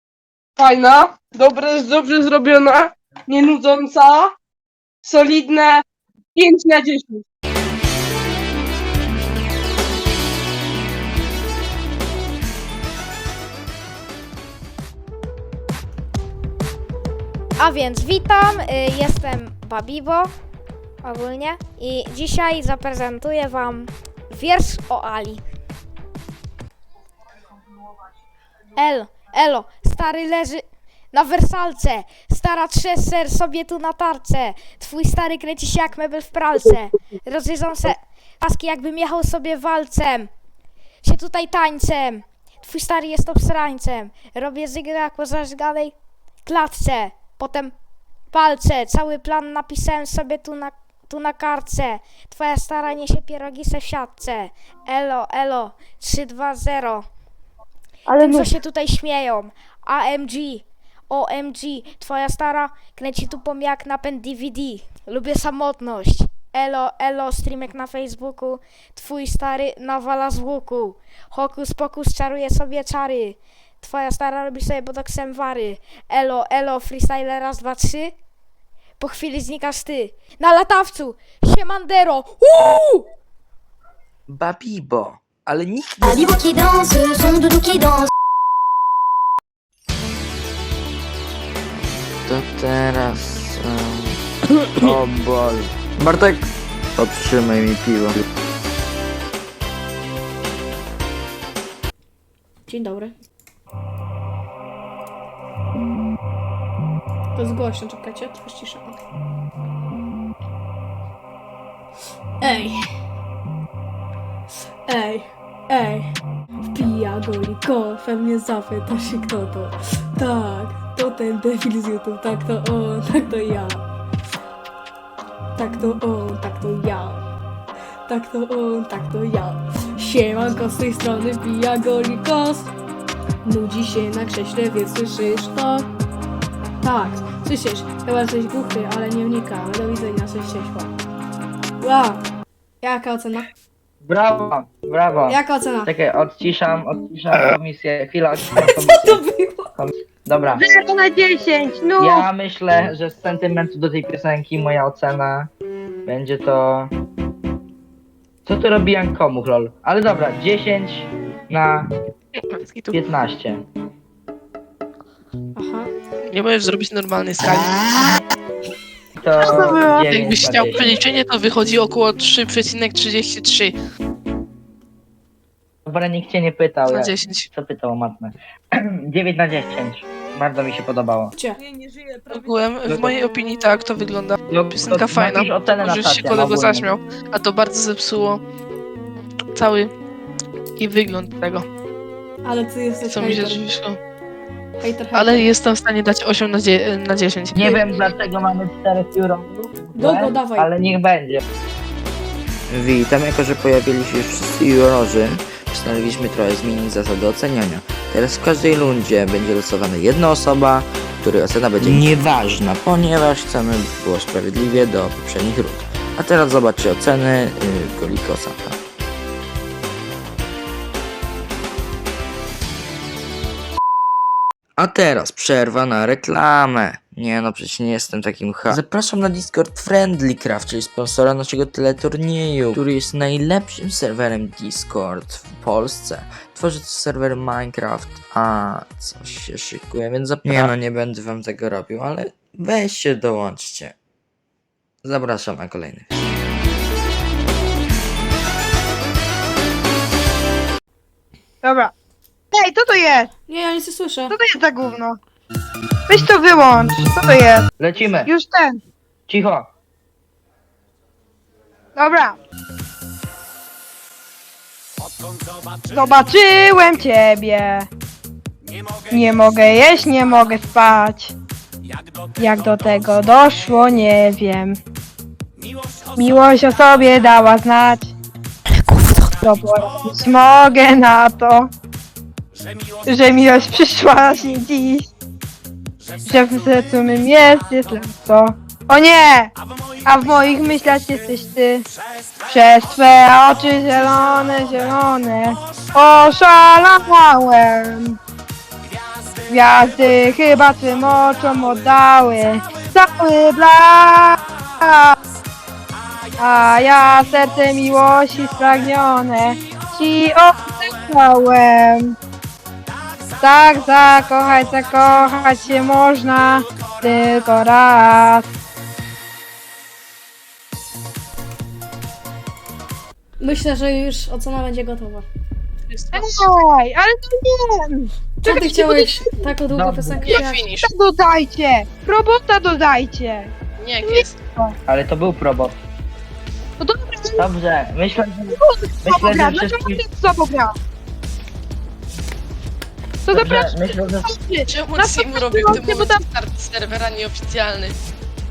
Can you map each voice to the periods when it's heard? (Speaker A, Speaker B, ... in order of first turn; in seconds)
Speaker A: 0.6-4.3, 5.0-5.8, 6.3-7.2
Speaker B: 17.6-20.3, 21.0-25.4, 28.8-40.3, 41.0-47.8, 48.3-57.0, 58.1-78.1, 79.0-83.1
Speaker C: 84.3-86.4, 91.7-94.2, 94.8-98.2, 202.7-218.8, 224.8-243.9, 245.1-246.3
Speaker D: 86.0-88.1
Speaker E: 102.7-103.2, 107.3-109.0, 112.4-112.8, 114.9-116.1, 116.7-123.8, 125.5-127.2, 128.1-132.7, 133.4-135.9, 136.8-140.9, 141.8-142.2, 142.8-143.5, 145.3-145.9, 148.5-149.7, 165.6-165.9, 192.4-193.7, 194.8-195.5, 199.9-200.7, 253.5-254.4, 323.4-325.2, 328.4-330.6
Speaker F: 144.1-149.2, 149.8-150.7, 152.0-155.5, 156.1-156.9, 158.5-161.9, 162.9-163.7, 169.2-171.0, 175.9-178.3, 179.0-181.3, 182.8-183.2, 184.5-186.9, 197.6-201.4, 240.5-240.7, 257.8-258.3, 259.3-259.7, 329.7-330.3, 334.9-335.8, 337.4-340.0, 343.3-344.3
Speaker G: 150.6-152.3, 251.6-251.9, 252.5-253.3, 254.3-255.2, 256.1-258.8, 262.0-262.4, 265.9-267.9, 269.1-271.4, 272.4-274.8, 276.2-278.1, 279.4-281.7, 283.1-285.1, 286.3-289.5, 290.1-291.9, 292.5-298.2, 299.5-305.2, 306.4-312.2, 313.4-318.5, 326.1-329.5, 330.4-333.5, 334.1-334.7, 336.8-337.5, 338.5-340.7, 343.3-346.2
Speaker H: 162.5-163.0, 166.3-167.7, 169.9-173.7, 176.9-177.5, 182.3-188.4, 189.6-189.9, 190.8-191.7, 193.1-194.0, 195.1-198.1, 325.9-326.2, 330.2-330.9, 333.8-334.4, 344.7-347.9